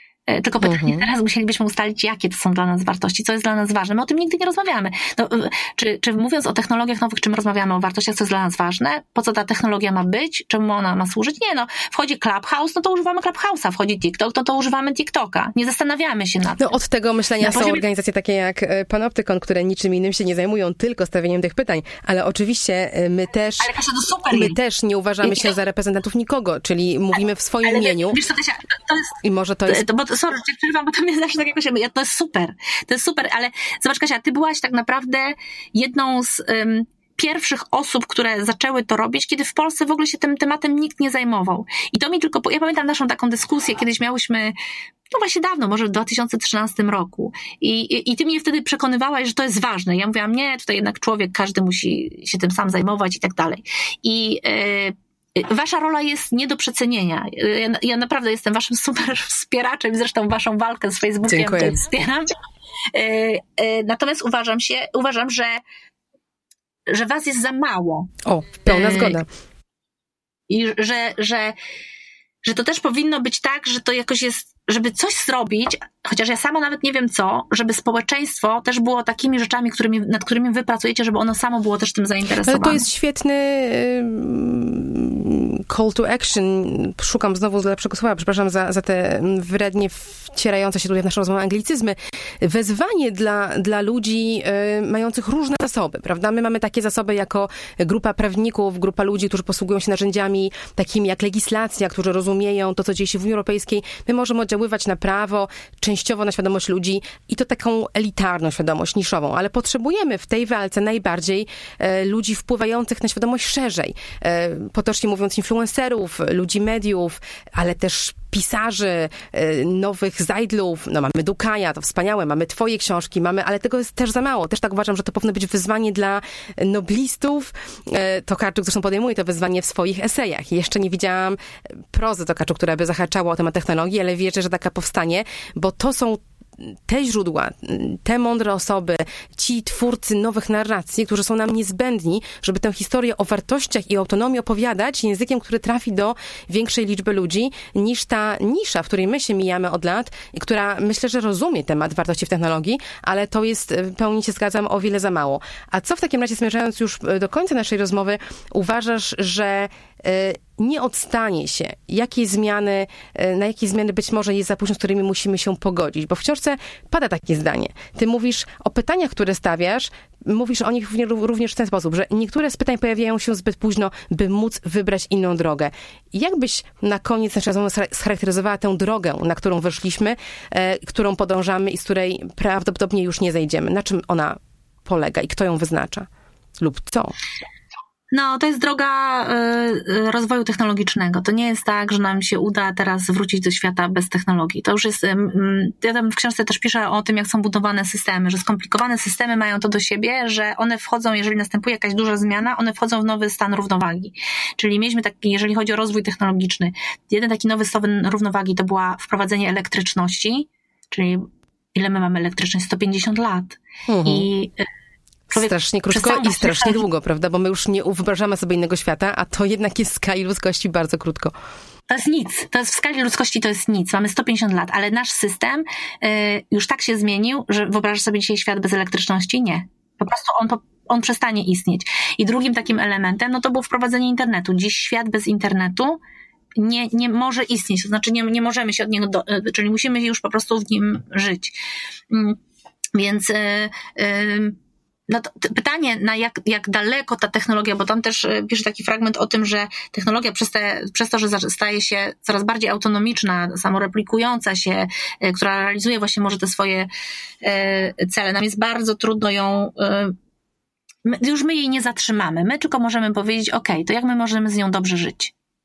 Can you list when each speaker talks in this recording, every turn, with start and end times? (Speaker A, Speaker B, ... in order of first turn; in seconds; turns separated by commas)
Speaker A: 0.3-16.8, Speaker B: 0.6-1.1, Speaker B: 16.6-23.7, Speaker A: 17.4-17.8, Speaker A: 23.6-24.6, Speaker B: 24.3-28.2, Speaker A: 25.2-25.5, Speaker A: 27.6-29.1, Speaker B: 29.2-29.9, Speaker A: 29.7-44.6, Speaker A: 45.1-62.3, Speaker B: 61.3-61.8, Speaker A: 62.9-65.6, Speaker A: 66.9-68.1, Speaker B: 68.2-69.3, Speaker A: 68.7-69.2, Speaker A: 70.5-71.6, Speaker A: 72.4-82.8, Speaker B: 82.4-131.4, Speaker B: 131.9-186.1, Speaker B: 186.6-187.2, Speaker A: 188.1-214.7, Speaker B: 213.9-214.3, Speaker A: 215.3-216.8, Speaker B: 215.3-221.3, Speaker A: 221.9-236.0, Speaker A: 236.6-241.6, Speaker A: 242.1-242.4, Speaker A: 242.9-244.6, Speaker A: 245.1-256.9, Speaker A: 257.4-260.1, Speaker A: 261.1-265.3